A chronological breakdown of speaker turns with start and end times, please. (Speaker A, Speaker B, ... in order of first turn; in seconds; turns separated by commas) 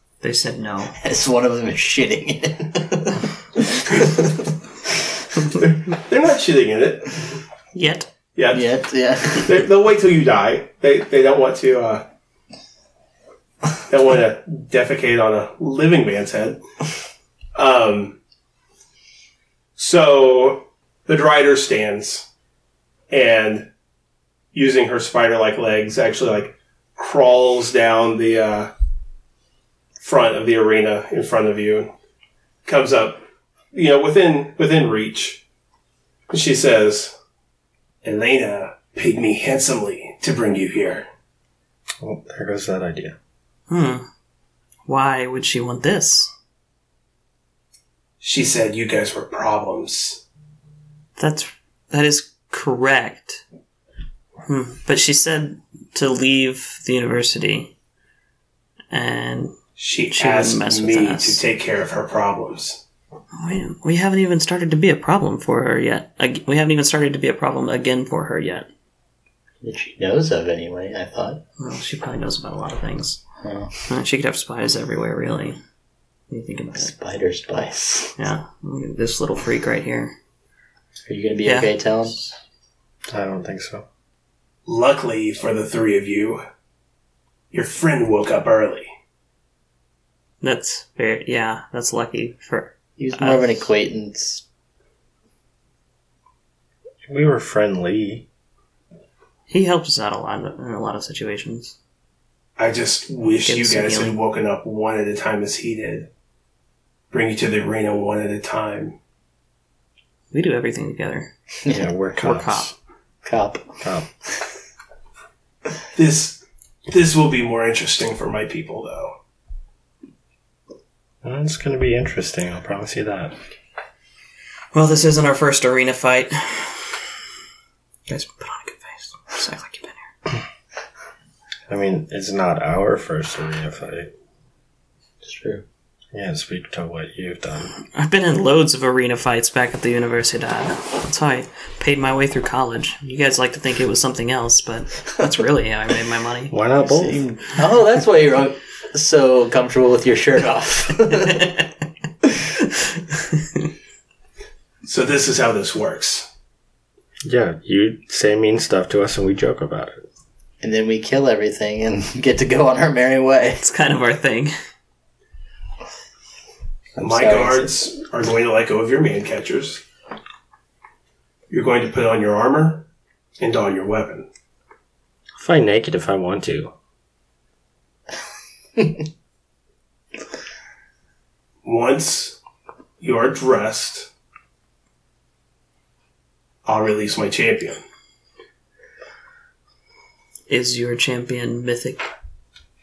Speaker A: 0.2-0.9, Speaker B: 1.0-4.9, Speaker C: 5.6-7.3, Speaker A: 7.7-8.1, Speaker C: 8.4-8.7, Speaker B: 8.5-9.6, Speaker C: 9.3-12.0, Speaker C: 13.9-16.6, Speaker C: 17.5-18.2, Speaker C: 19.8-22.3, Speaker C: 23.1-23.7, Speaker C: 24.5-28.7, Speaker C: 30.0-31.9, Speaker C: 32.6-33.2, Speaker C: 33.7-35.4, Speaker C: 36.3-37.1, Speaker C: 38.0-41.0, Speaker D: 42.0-43.1, Speaker A: 43.7-44.0, Speaker A: 44.9-46.3, Speaker C: 48.2-50.2, Speaker A: 51.2-53.4, Speaker A: 54.5-57.7, Speaker A: 58.9-59.5, Speaker C: 59.8-62.8, Speaker A: 60.1-61.4, Speaker A: 63.3-68.7, Speaker B: 69.6-71.4, Speaker A: 71.6-73.2, Speaker B: 73.4-73.7, Speaker A: 73.9-75.6, Speaker A: 76.3-76.9, Speaker B: 76.8-78.2, Speaker A: 78.2-80.1, Speaker B: 81.0-82.2, Speaker A: 81.4-82.3, Speaker D: 83.1-83.8, Speaker C: 84.7-86.4, Speaker C: 87.5-88.9, Speaker A: 90.4-93.7, Speaker B: 93.0-94.4, Speaker D: 97.1-98.2, Speaker A: 99.5-101.8, Speaker C: 102.6-106.1, Speaker A: 103.5-104.2, Speaker C: 107.1-109.0, Speaker A: 110.3-111.3, Speaker B: 111.6-111.9, Speaker D: 111.7-112.7, Speaker A: 112.2-112.7, Speaker B: 113.2-113.8, Speaker D: 113.8-114.1, Speaker C: 115.9-119.1, Speaker D: 121.2-123.3, Speaker A: 124.7-127.0, Speaker A: 128.1-130.1, Speaker D: 131.7-134.1, Speaker B: 135.2-135.6, Speaker D: 136.1-137.7, Speaker A: 137.8-146.5, Speaker D: 146.5-147.4, Speaker B: 146.8-151.5, Speaker A: 151.1-151.7, Speaker C: 154.8-156.3, Speaker D: 157.2-160.0, Speaker B: 160.6-163.6, Speaker A: 163.6-164.5, Speaker B: 166.9-167.7, Speaker C: 167.0-169.8, Speaker C: 171.5-172.9, Speaker C: 173.4-174.3, Speaker D: 175.4-176.7, Speaker C: 181.6-182.4, Speaker C: 183.0-184.1, Speaker C: 186.7-187.8, Speaker A: 190.5-192.1